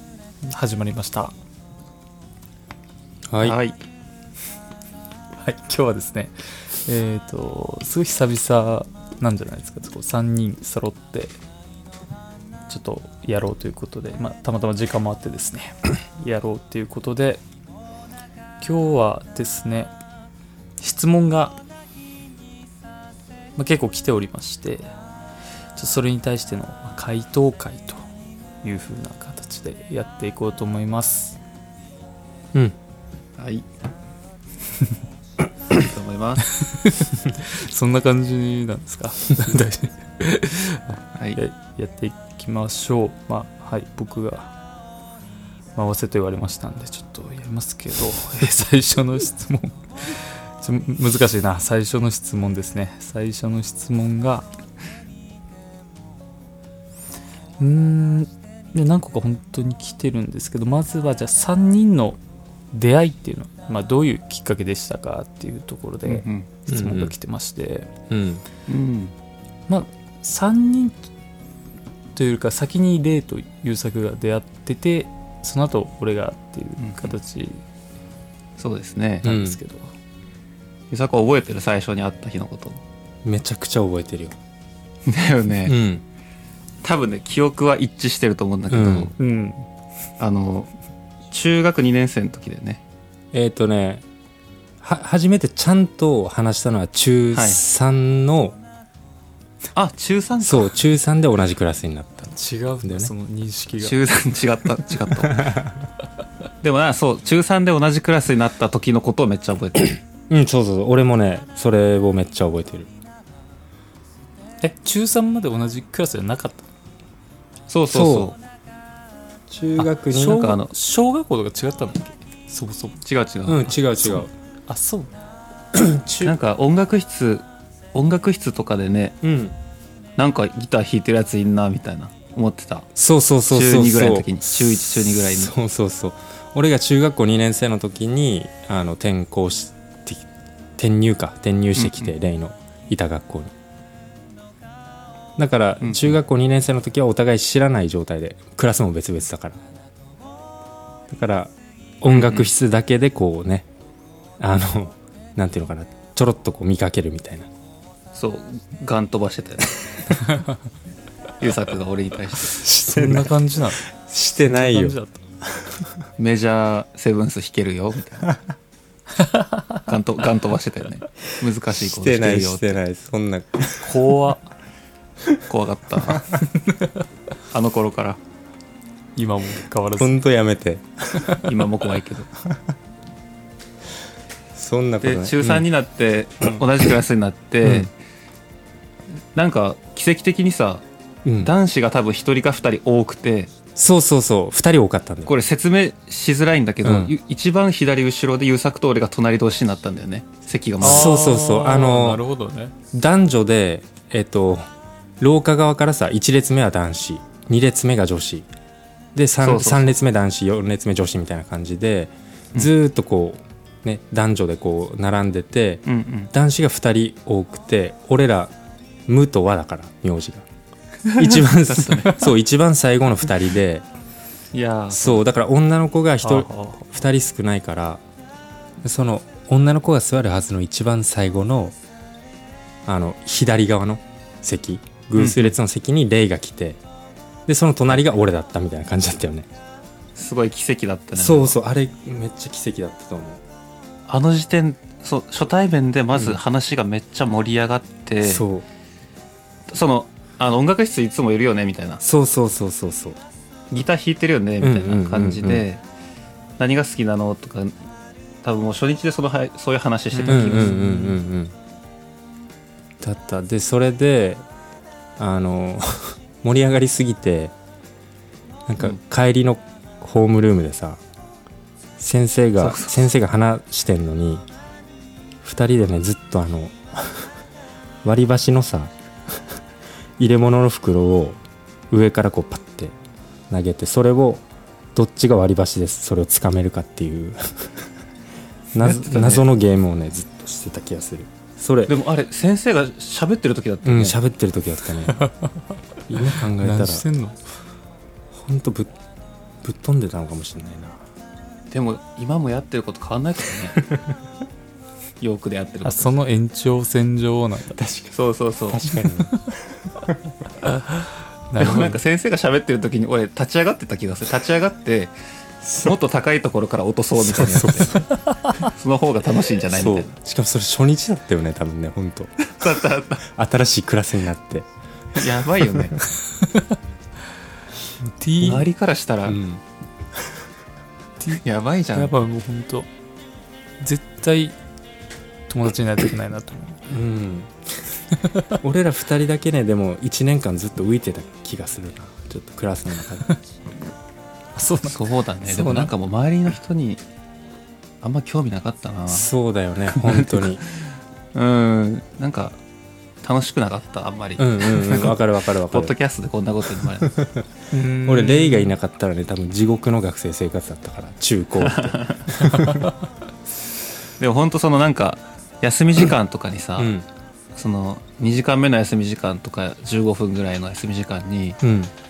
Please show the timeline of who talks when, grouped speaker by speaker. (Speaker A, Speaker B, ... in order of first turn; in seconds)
Speaker A: 0.4-1.3, 5.4-6.3, 6.8-11.4, 12.7-17.4, 18.6-19.9, 20.8-21.6, 23.6-24.9, 25.8-28.0, 28.6-31.4, 36.6-44.5, 45.8-54.5, 57.6-62.2, 62.7-67.9, 69.7-71.1, 72.2-77.6, 79.2-79.9, 89.2-89.7, 102.3-104.0, 114.6-116.7, 120.1-123.0, 124.0-125.2, 160.2-160.6, 162.7-163.8, 164.4-165.2, 169.2-169.8, 173.8-174.5, 179.2-180.2, 200.8-202.7, 260.1-261.0, 295.2-295.5, 296.6-297.4, 305.8-307.8, 310.6-312.0, 318.0-318.7, 326.4-326.8, 328.2-328.7, 331.9-332.9, 333.8-334.6, 335.5-336.9, 338.3-338.6, 344.6-345.9, 357.7-358.7
Speaker B: 3.3-3.6, 66.7-67.1, 68.1-68.5, 79.2-79.6, 83.2-84.4, 85.7-86.0, 88.7-89.1, 93.3-94.0, 94.8-98.6, 100.4-102.3, 102.8-103.1, 105.2-105.7, 110.3-112.9, 117.9-118.3, 119.5-120.6, 123.5-124.3, 125.7-126.4, 129.2-129.6, 133.0-143.5, 145.4-149.6, 151.1-153.7, 154.4-157.5, 162.6-163.3, 164.0-165.0, 165.6-165.9, 171.8-174.0, 180.0-181.7, 184.6-185.7, 187.6-187.9, 191.2-191.5, 193.8-195.3, 196.8-197.2, 200.8-202.2, 202.9-204.7, 205.2-208.5, 209.2-218.5, 219.1-220.4, 221.2-223.8, 224.9-228.0, 228.8-231.8, 232.9-236.8, 237.5-239.5, 241.2-243.4, 248.2-248.7, 252.0-253.2, 254.6-255.6, 260.3-261.6, 263.0-264.4, 265.2-267.5, 268.7-271.0, 272.0-274.4, 275.4-277.3, 278.0-279.6, 280.2-281.4, 281.9-282.9, 283.5-287.9, 288.7-291.9, 293.8-295.2, 296.1-297.1, 298.3-298.9, 299.6-301.0, 307.8-310.2, 317.2-318.1, 319.7-324.7, 329.3-329.6, 336.9-338.0, 338.6-343.2, 349.1-350.6, 354.4-355.9, 357.0-357.4, 358.1-362.9, 366.8-367.1, 371.6-371.9
Speaker C: 3.4-3.8, 33.4-33.6, 35.7-36.5, 41.1-41.4, 66.1-66.5, 68.7-69.1, 76.8-77.1, 78.6-79.3, 80.9-82.8, 85.1-85.8, 86.8-89.1, 90.2-90.7, 91.3-92.8, 97.3-97.6, 99.8-100.7, 103.8-105.5, 106.6-110.0, 117.7-118.4, 120.1-120.7, 123.0-123.7, 126.2-129.2, 130.2-132.9, 133.5-135.5, 141.8-142.1, 145.8-146.2, 152.1-152.5, 158.2-159.8, 161.4-162.6, 166.2-168.3, 169.9-172.8, 175.5-176.3, 177.5-178.2, 181.4-182.3, 185.0-187.9, 189.3-190.8, 191.4-193.5, 195.3-201.2, 209.4-209.9, 215.9-216.3, 221.1-222.2, 224.5-225.2, 226.3-226.7, 235.2-235.5, 240.2-241.6, 244.1-248.4, 249.7-252.0, 253.7-255.8, 256.6-257.8, 258.4-261.2, 272.6-273.0, 288.8-289.5, 291.9-294.2, 301.7-303.9, 305.2-306.1, 308.1-308.9, 311.6-315.1, 315.7-318.0, 318.6-320.1, 322.5-323.2, 325.1-326.0, 328.4-329.4, 331.4-332.1, 344.9-347.0, 348.0-349.3, 349.9-350.8, 351.4-352.6, 353.2-357.1, 361.6-362.4, 364.2-366.9, 367.6-371.6